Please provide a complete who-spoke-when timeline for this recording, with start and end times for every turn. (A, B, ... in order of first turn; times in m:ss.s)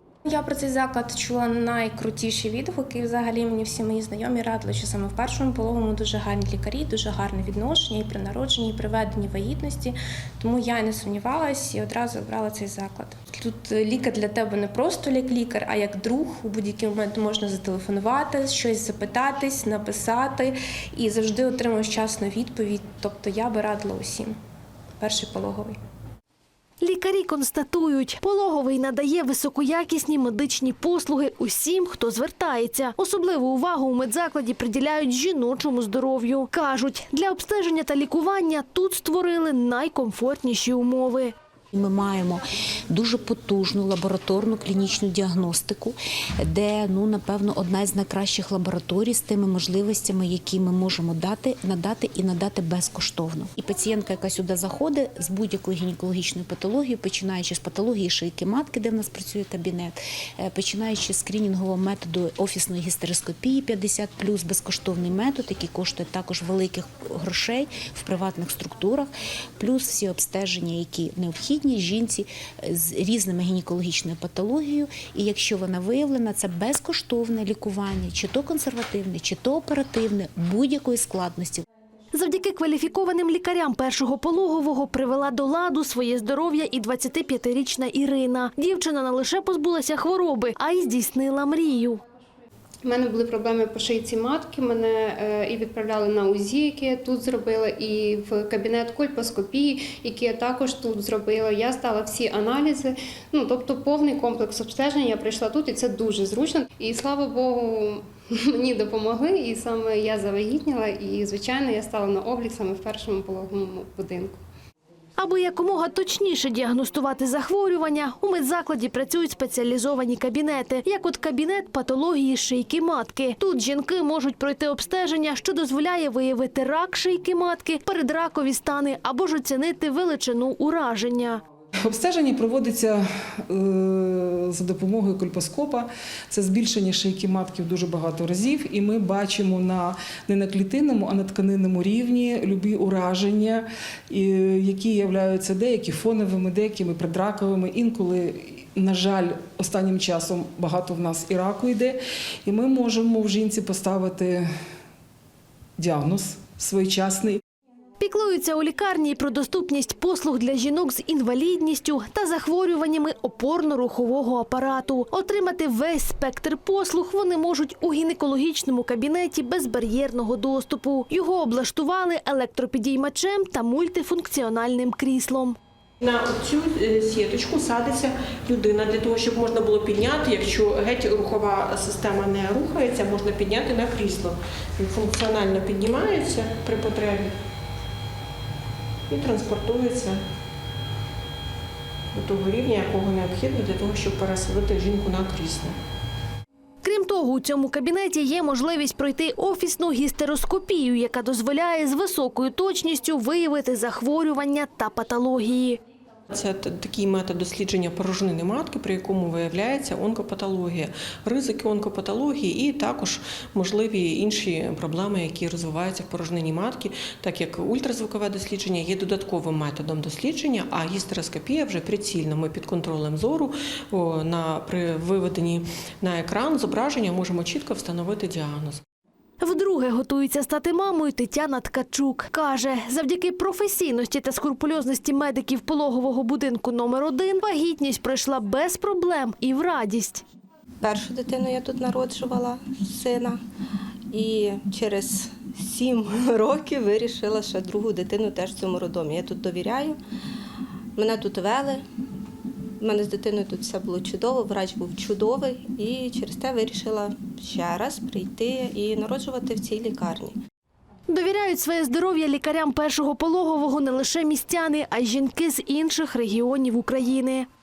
0:00.2-0:24.3 A
0:25.0-0:25.8 A
0:26.8-0:41.3 B
0:41.7-1:21.6 C
1:22.1-1:32.0 B
1:32.8-1:54.4 D
1:55.2-2:11.4 B
2:11.9-2:34.4 E
2:35.8-2:37.4 E
2:38.0-2:55.6 B
2:56.0-3:07.3 F
3:09.1-3:10.2 F
3:12.1-3:15.7 F
3:16.8-3:25.8 B
3:26.3-3:48.8 F
3:49.4-4:00.2 B
4:00.8-4:03.4 G
4:04.1-4:10.0 G
4:11.0-4:11.8 G
4:12.8-4:20.4 G
4:21.1-4:27.5 B